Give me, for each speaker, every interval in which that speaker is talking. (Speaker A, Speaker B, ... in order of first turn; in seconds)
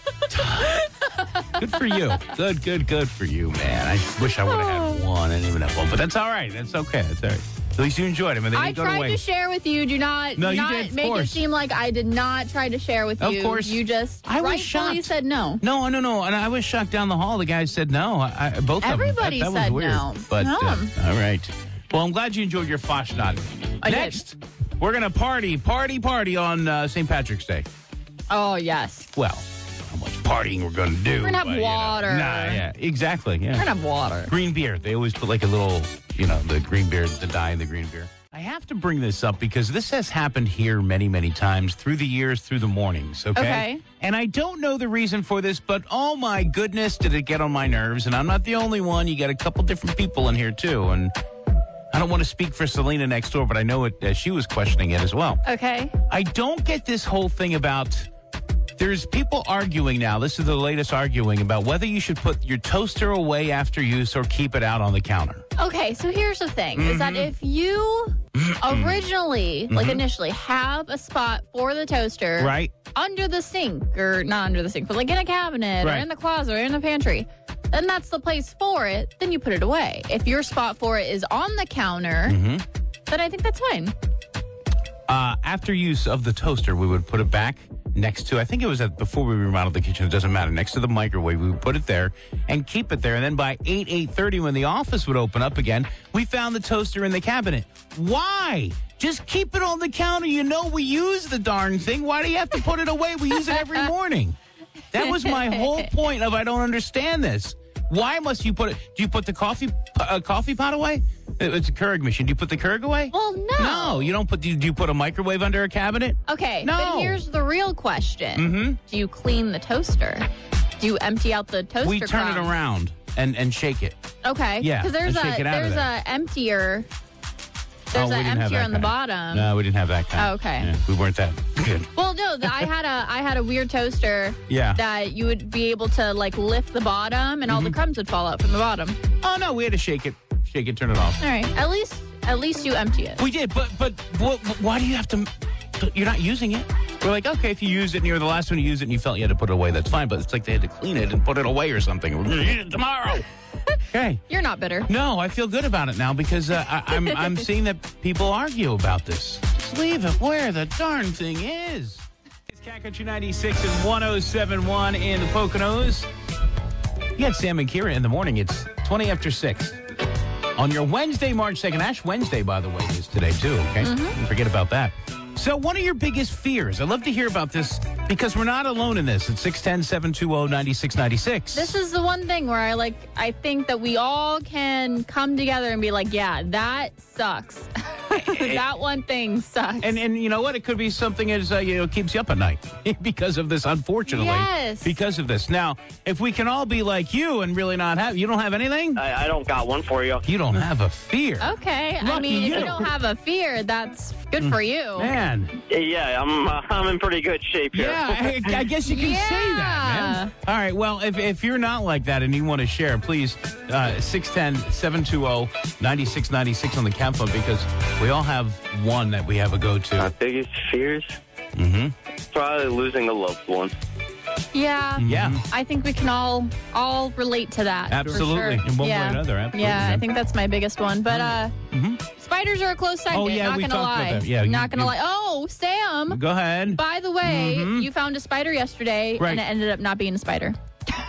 Speaker A: 0.3-0.9, 1.5-9.2, 10.3-11.5, 13.2-27.7, 29.1-33.7, 34.3-51.1, 51.9-55.4, 56.1-58.1, 58.8-65.4, 66.8-67.3, 68.3-69.0, 69.7-70.0, 72.4-72.8, 75.8-76.0, 82.2-82.6, 85.1-104.4, 104.9-117.2, 118.3-118.8, 121.8-124.0, 124.6-125.9, 127.9-131.9, 132.4-132.7, 134.5-134.8, 137.4-137.8, 139.2-141.2, 143.2-153.2, 153.9-154.2, 154.8-166.1, 167.2-169.8, 170.6-181.7, 188.1-188.6, 189.8-199.0, 200.2-202.9, 204.4-205.5, 207.7-220.1, 221.6-221.9, 225.0-225.4, 227.9-230.0, 231.0-232.0, 233.1-234.9, 236.1-237.9, 239.2-239.4
Speaker B: 1.1-2.1, 4.3-5.0, 8.5-15.6, 18.8-20.9, 23.8-24.2, 28.3-29.1, 31.2-32.6, 33.5-34.3, 43.3-43.8, 55.4-55.9, 65.6-82.3, 83.1-83.9, 105.1-105.5, 113.1-114.1, 116.2-120.3, 120.8-122.5, 124.2-126.9, 127.9-129.5, 130.2-130.7, 131.9-139.0, 141.2-143.2, 154.3-154.9, 173.8-174.2, 181.5-190.0, 194.1-194.9, 201.4-205.1, 208.8-210.3, 224.5-231.5, 232.1-236.2, 236.7-240.6
Speaker C: 198.9-200.3, 202.5-202.8, 205.7-208.7, 220.0-221.2, 222.3-223.8